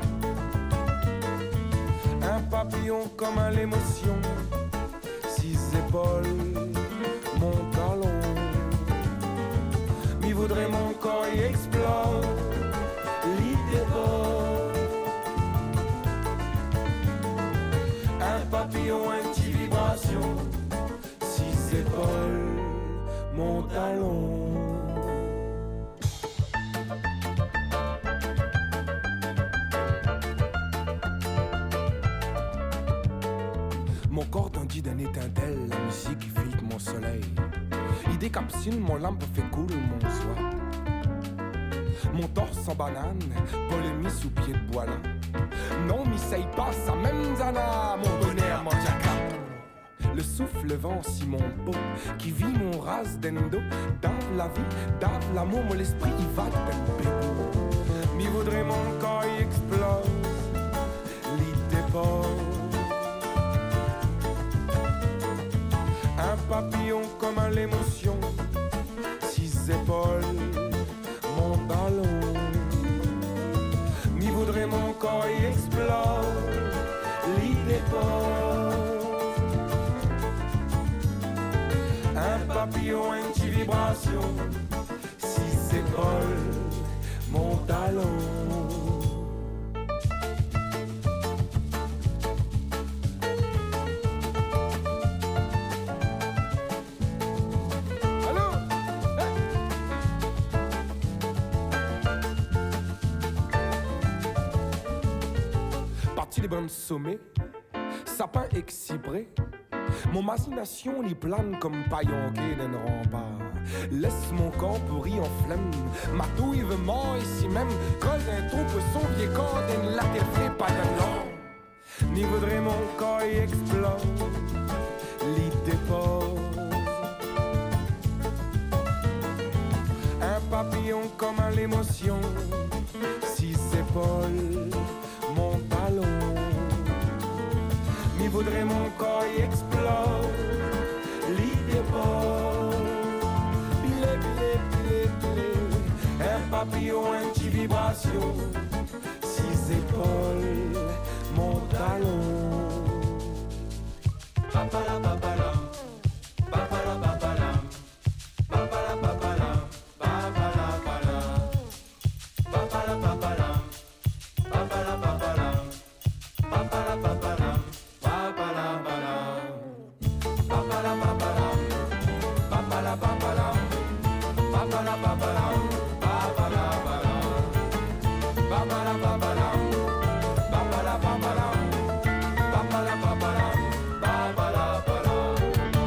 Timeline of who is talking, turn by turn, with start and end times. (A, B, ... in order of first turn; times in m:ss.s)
0:02.2-0:04.5 A
0:05.2-0:08.9 A
0:10.2-0:12.7 A
0:13.2-0:14.9 A
0:18.2-0:20.6 A
0:21.2-0:25.3 A
0:34.1-0:37.4 A
0:38.1-0:40.5 A
0:42.1-0:45.0 A
0:45.8-0:49.4 A
0:50.1-1:00.5 A
1:01.3-1:03.0 A
1:06.2-1:08.6 A
1:09.2-1:13.1 A
1:14.1-1:19.2 A
1:22.1-1:24.6 A
1:25.2-1:29.2 A
1:38.2-1:38.6 A
1:46.1-1:47.2 A
1:48.0-1:49.3 A
1:50.1-2:01.5 A
2:02.1-2:04.6 A
2:05.2-2:07.0 A
2:10.2-2:17.0 A
2:18.1-2:20.7 A
2:21.2-2:23.2 A
2:23.8-2:33.3 A
2:35.0-2:35.4 A
2:36.6-2:37.5 A
2:38.9-2:40.9 A
2:48.3-2:49.4 A
2:50.6-2:51.2 A
2:52.5-2:53.6 A
2:54.6-2:57.2 A
2:58.5-2:59.6 A
3:00.5-3:01.7 A
3:02.5-3:05.0 A